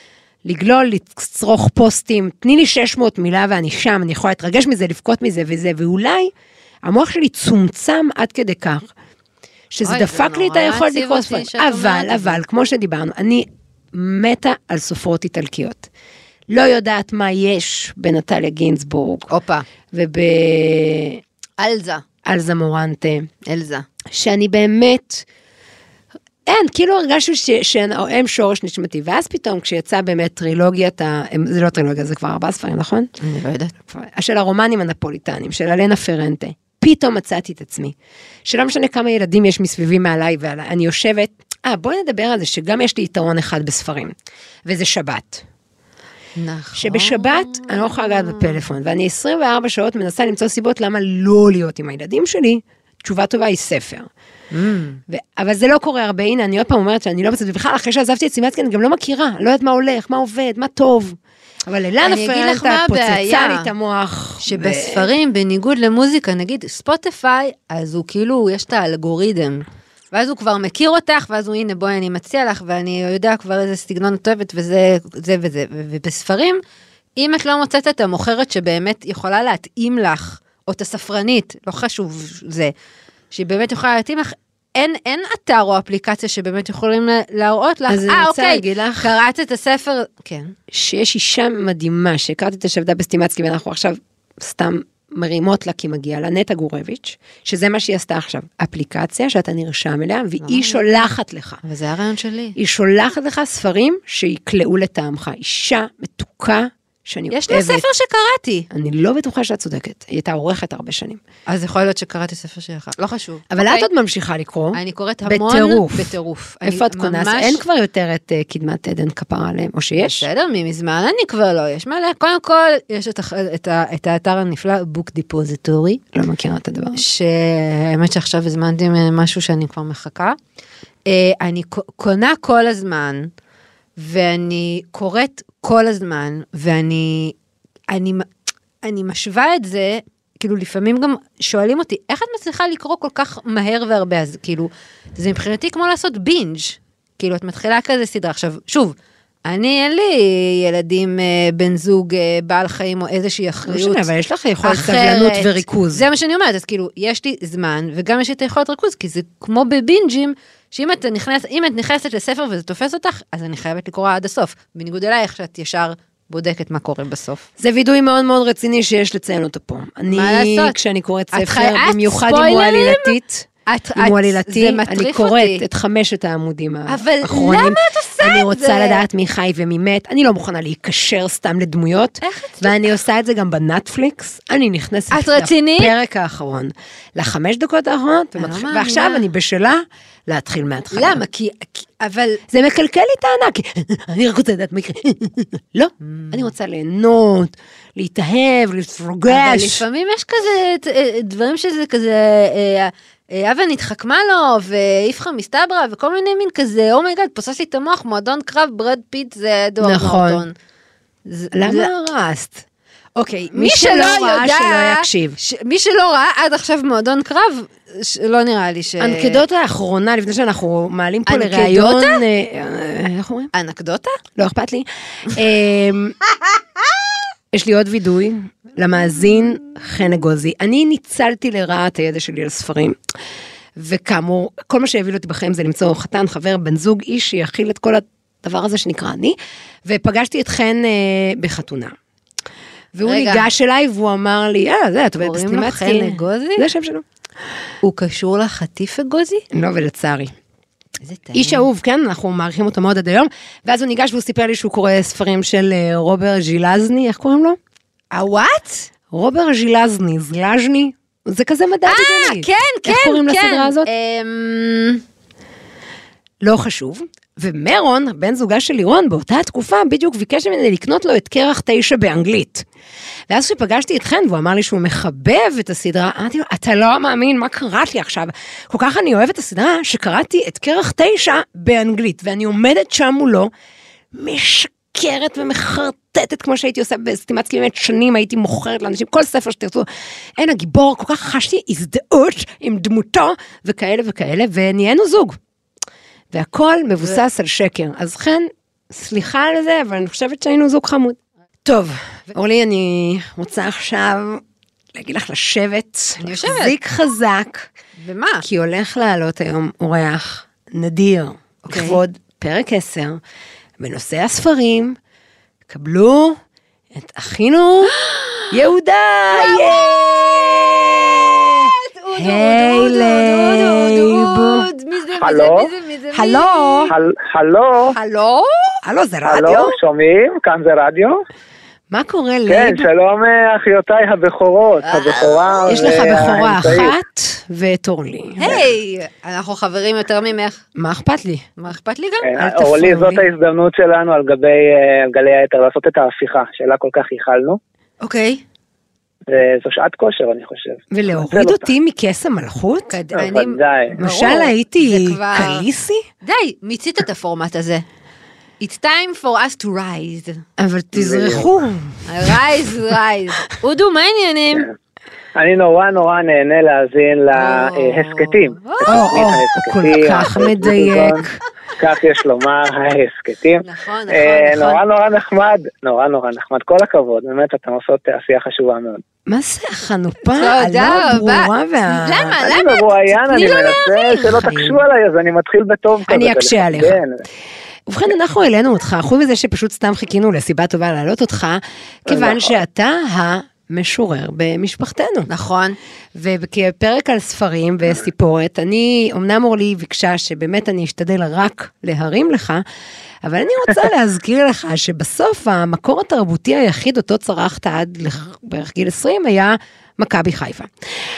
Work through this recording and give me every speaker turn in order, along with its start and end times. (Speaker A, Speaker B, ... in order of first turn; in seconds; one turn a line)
Speaker A: 0.4-6.3
Speaker A: 6.8-8.9
Speaker A: 9.7-15.9
Speaker B: 9.8-12.4
Speaker A: 16.5-19.3
Speaker B: 19.3-19.6
Speaker A: 19.9-21.2
Speaker B: 21.6-22.0
Speaker A: 22.2-23.3
Speaker B: 23.4-23.8
Speaker A: 24.1-25.2
Speaker A: 26.4-33.1
Speaker B: 33.2-33.8
Speaker A: 33.9-44.1
Speaker A: 44.6-45.4
Speaker B: 46.4-48.6
Speaker A: 46.8-54.1
Speaker B: 54.5-55.0
Speaker A: 55.1-65.1
Speaker B: 62.0-63.7
Speaker B: 64.4-76.6
Speaker B: 77.2-82.7
Speaker B: 83.3-90.5
Speaker A: 87.9-89.1
Speaker A: 90.7-101.6
Speaker B: 100.4-101.1
Speaker B: 101.6-102.5
Speaker A: 102.5-107.8
Speaker B: 107.3-108.7
Speaker A: 108.7-111.2
Speaker B: 111.5-113.9
Speaker A: 113.5-120.2
Speaker B: 114.7-117.6
Speaker B: 120.0-126.0
Speaker A: 126.1-127.0
Speaker B: 127.0-130.4
Speaker B: 131.1-133.3
Speaker B: 134.0-137.3
Speaker B: 137.9-138.2
Speaker B: 138.8-154.1
Speaker A: 153.7-156.0
Speaker B: 154.6-167.4
Speaker A: 167.6-191.2
Speaker B: 170.1-170.8
Speaker B: 171.3-175.6
Speaker B: 176.9-179.0
Speaker B: 182.2-182.8
Speaker B: 185.1-185.9
Speaker B: 188.4-189.2
Speaker B: 190.9-192.4
Speaker A: 192.5-199.8
Speaker B: 196.0-196.4
Speaker B: 199.3-210.5
Speaker A: 209.8-210.4
Speaker B: 211.2-211.9
Speaker A: 211.5-212.6
Speaker B: 213.2-219.4
Speaker A: 213.5-215.4
Speaker A: 219.0-223.5
Speaker B: 221.3-222.2
Speaker B: 223.5-224.2
Speaker A: 224.3-226.2
Speaker A: 227.5-233.0
Speaker A: 233.8-241.9
Speaker A: 242.9-247.0
Speaker B: 243.0-243.5
Speaker B: 245.2-246.7
Speaker B: 247.8-249.4
Speaker A: 249.5-250.3
Speaker B: 251.0-251.6
Speaker A: 251.3-257.6
Speaker B: 258.1-258.9
Speaker A: 259.1-263.9
Speaker B: 261.9-265.0
Speaker A: 266.4-272.6
Speaker A: 273.3-283.5
Speaker A: 284.1-295.4
Speaker A: 296.3-307.7
Speaker B: 306.2-306.8
Speaker B: 308.0-308.4
Speaker A: 308.4-313.2
Speaker B: 311.6-312.0
Speaker A: 313.8-315.0
Speaker A: 315.7-316.4
Speaker A: 316.9-317.9
Speaker B: 317.9-318.6
Speaker A: 318.5-324.7
Speaker B: 319.3-320.5
Speaker B: 321.2-326.9
Speaker C: 325.2-325.7
Speaker A: 326.1-326.9
Speaker C: 326.9-327.9
Speaker B: 327.9-328.8
Speaker A: 328.8-329.8
Speaker C: 329.3-331.2
Speaker A: 331.9-332.9
Speaker C: 332.5-336.9
Speaker B: 334.8-335.6
Speaker A: 335.7-338.6
Speaker B: 338.4-340.6
Speaker A: 340.7-341.5
Speaker B: 341.6-342.3
Speaker C: 342.2-347.6
Speaker A: 342.4-343.3
Speaker B: 348.0-348.4
Speaker C: 349.3-351.7
Speaker A: 350.9-353.0
Speaker B: 352.9-355.6
Speaker C: 353.1-354.0
Speaker A: 354.0-356.0
Speaker B: 356.2-357.8
Speaker B: 358.6-360.4
Speaker A: 360.6-362.4
Speaker C: 360.9-361.5
Speaker B: 362.1-364.7
Speaker C: 365.4-371.2
Speaker B: 367.3-369.0
Speaker A: 368.9-371.4
Speaker C: 371.8-379.0
Speaker B: 373.6-374.8
Speaker A: 379.3-382.3
Speaker B: 380.3-384.2
Speaker C: 382.4-387.2
Speaker A: 384.2-384.8
Speaker A: 386.1-387.0
Speaker A: 387.9-395.3
Speaker C: 392.1-392.5
Speaker B: 395.3-395.8
Speaker A: 396.1-402.6
Speaker A: 403.2-410.7